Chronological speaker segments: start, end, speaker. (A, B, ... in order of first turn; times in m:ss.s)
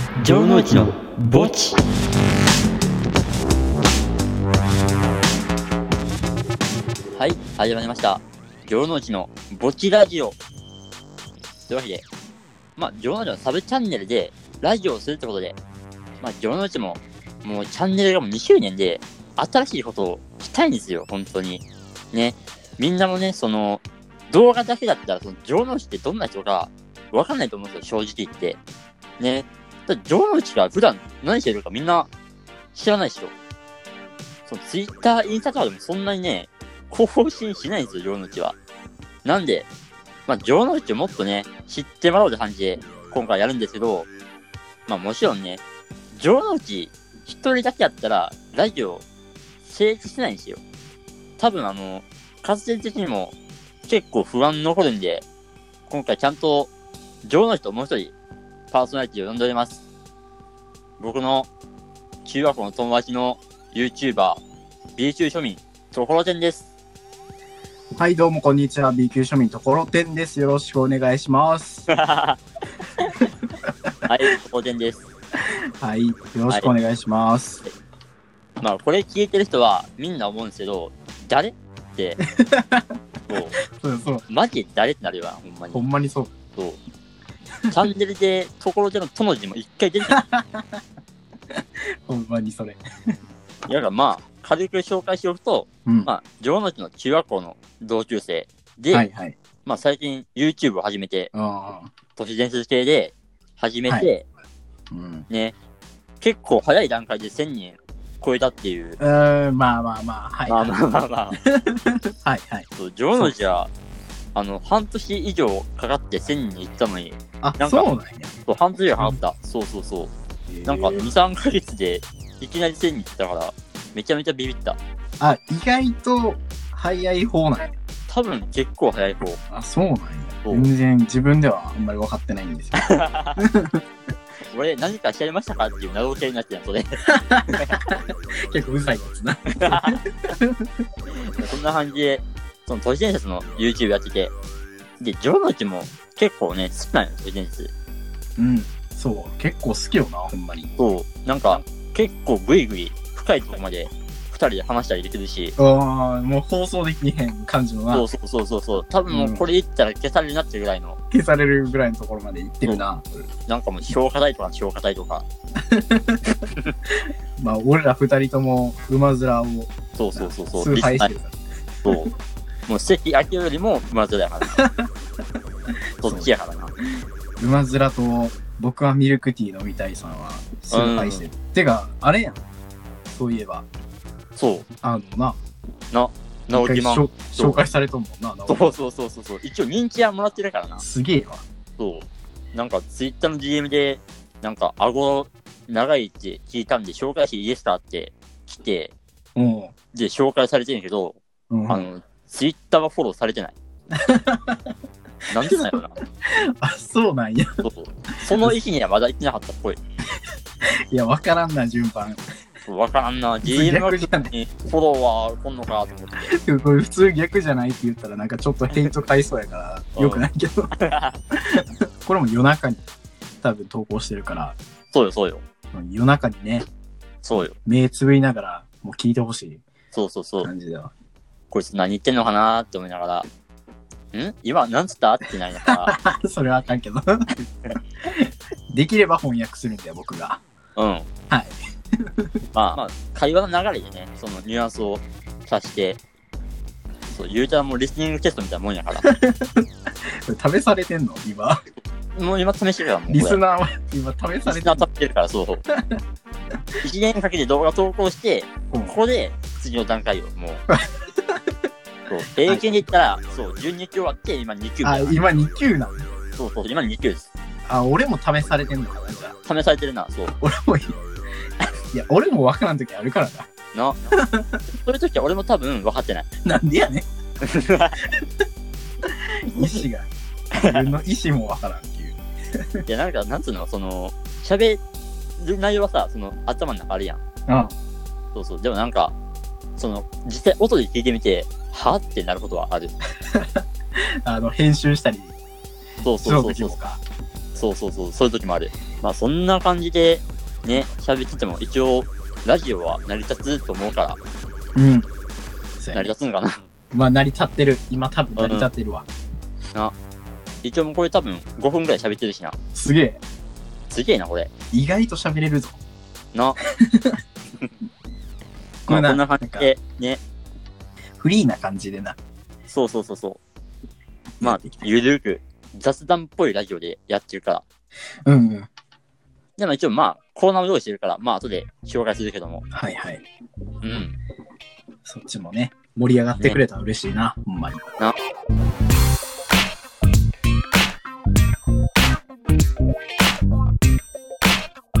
0:00.2-0:01.8 A
0:00.2-0:00.9 B
0:07.2-0:10.4 A
0:11.7-0:12.0 A
0:12.8-0:15.6 A
0:16.2-0:28.6 A
0:29.2-0:32.1 A
0:32.7-0:33.3 A
0:34.5-0:38.6 A
0:39.2-0:39.7 A
0:40.3-0:44.1 A
0:44.9-0:45.6 A
0:46.1-0:49.0 A
0:49.6-0:50.6 A
0:51.4-0:53.3 A
0:53.9-0:55.2 A
0:55.9-0:56.7 A
0:57.2-0:58.1 A
0:58.7-0:59.8 A
1:01.0-1:01.5 A
1:02.2-1:04.4 A
1:05.0-1:06.7 A
1:07.9-1:11.9 B
1:11.9-1:12.4 A
1:13.2-1:13.9 B
1:14.1-1:15.0 A
1:15.4-1:17.6 B
1:18.6-1:22.2 A
1:22.2-1:22.9 B
1:23.3-1:23.6 A
1:23.6-1:24.2 B
1:24.3-1:25.8 A
1:25.7-1:26.3 B
1:27.7-1:30.2 A
1:30.1-1:30.8 B
1:31.5-1:32.8 B
1:33.7-1:39.0 A
1:38.9-1:39.4 B
1:39.6-1:41.3 A
1:41.3-1:41.9 B
1:42.2-1:44.2 A
1:44.9-1:45.3 B
1:45.3-1:45.5 A
1:46.2-1:49.0 A
1:49.0-1:50.8 B
1:50.5-1:51.4 A
1:51.4-1:53.3 B
1:52.8-1:53.7 A
1:54.3-1:57.9 A
1:57.4-1:58.3 B
1:58.5-2:00.1 A
2:00.5-2:01.1 B
2:00.6-2:04.8 A
2:05.2-2:07.8 B
2:08.1-2:09.4 A
2:09.5-2:13.8 B
2:10.4-2:10.7 A
2:12.7-2:13.4 A
2:14.5-2:17.8 A
2:17.1-2:20.7 B
2:19.6-2:20.0 A
2:21.3-2:24.3 A
2:25.0-2:27.7 A
2:28.4-2:30.7 B
2:30.8-2:35.5 A
2:35.6-2:38.0 B
2:37.9-2:41.0 A
2:39.1-2:39.5 B
2:41.1-2:43.2 B
2:43.5-2:45.2 A
2:45.6-2:46.5 B
2:47.0-2:52.1 B
2:50.0-2:51.1 A
2:51.8-2:52.1 A
2:52.7-2:54.6 A
2:54.6-2:54.8 B
2:56.0-2:56.7 A
2:56.0-2:56.3 B
2:57.4-3:02.4 B
3:00.7-3:01.3 A
3:03.1-3:03.7 B
3:04.4-3:04.6 A
3:04.8-3:05.4 B
3:05.9-3:07.6 A
3:06.5-3:08.7 B
3:08.5-3:10.8 A
3:10.8-3:11.4 B
3:11.8-3:18.9 A
3:19.4-3:19.7 B
3:19.9-3:23.5 A
3:21.5-3:21.8 B
3:23.9-3:24.7 B
3:25.3-3:25.9 A
3:25.4-3:27.6 B
3:27.6-3:29.8 A
3:28.2-3:28.5 B
3:30.6-3:32.2 B
3:32.6-3:36.3 A
3:33.4-3:34.3 B
3:36.3-3:40.7 B
3:39.9-3:40.2 A
3:40.8-3:41.2 A
3:41.3-3:42.9 B
3:43.4-3:44.6 B
3:44.9-3:45.4 A
3:45.7-3:46.7 B
3:47.2-3:47.5 A
3:47.5-3:49.6 B
3:49.9-3:50.5 A
3:50.4-3:50.9 B
3:51.5-3:53.2 A
3:54.1-3:56.0 A
3:55.6-3:57.3 B
3:58.0-4:00.4 B
4:00.8-4:01.1 A
4:01.3-4:02.3 B
4:02.5-4:06.0 A
4:07.1-4:09.0 A
4:09.0-4:11.6 B
4:12.1-4:13.4 A
4:13.1-4:14.8 B
4:14.4-4:15.6 A
4:15.7-4:16.0 B
4:16.8-4:20.6 A
4:18.7-4:19.0 B
4:20.7-4:21.5 B
4:22.1-4:25.2 A
4:24.8-4:26.1 B
4:26.3-4:27.3 A
4:27.6-4:29.3 B
4:29.4-4:30.4 A
4:30.4-4:31.0 B
4:31.9-4:33.5 B
4:33.7-4:34.1 A
4:34.1-4:34.6 B
4:34.7-4:36.3 A
4:36.4-4:37.0 B
4:37.4-4:38.0 A
4:39.0-4:42.6 B
4:40.5-4:40.8 A
4:42.8-4:44.8 A
4:45.4-4:47.2 A
4:47.5-4:47.7 B
4:48.3-4:49.1 A
4:49.8-4:52.9 A
4:53.3-4:55.4 B
4:56.0-4:56.8 A
4:56.2-4:57.0 B
4:57.5-5:04.2 A
5:04.7-5:05.1 B
5:05.8-5:06.1 B
5:05.9-5:06.6 A
5:06.9-5:09.1 B
5:08.4-5:08.7 A
5:10.6-5:12.6 A
5:12.7-5:13.2 B
5:13.9-5:14.5 A
5:14.7-5:15.8 B
5:16.7-5:17.2 B
5:18.8-5:19.7 B
5:18.9-5:20.2 A
5:21.2-5:22.2 B
5:22.7-5:23.4 A
5:24.4-5:24.8 B
5:24.4-5:27.6 A
5:28.2-5:28.7 B
5:29.6-5:32.6 A
5:32.7-5:33.2 B
5:33.8-5:34.2 A
5:35.0-5:37.9 B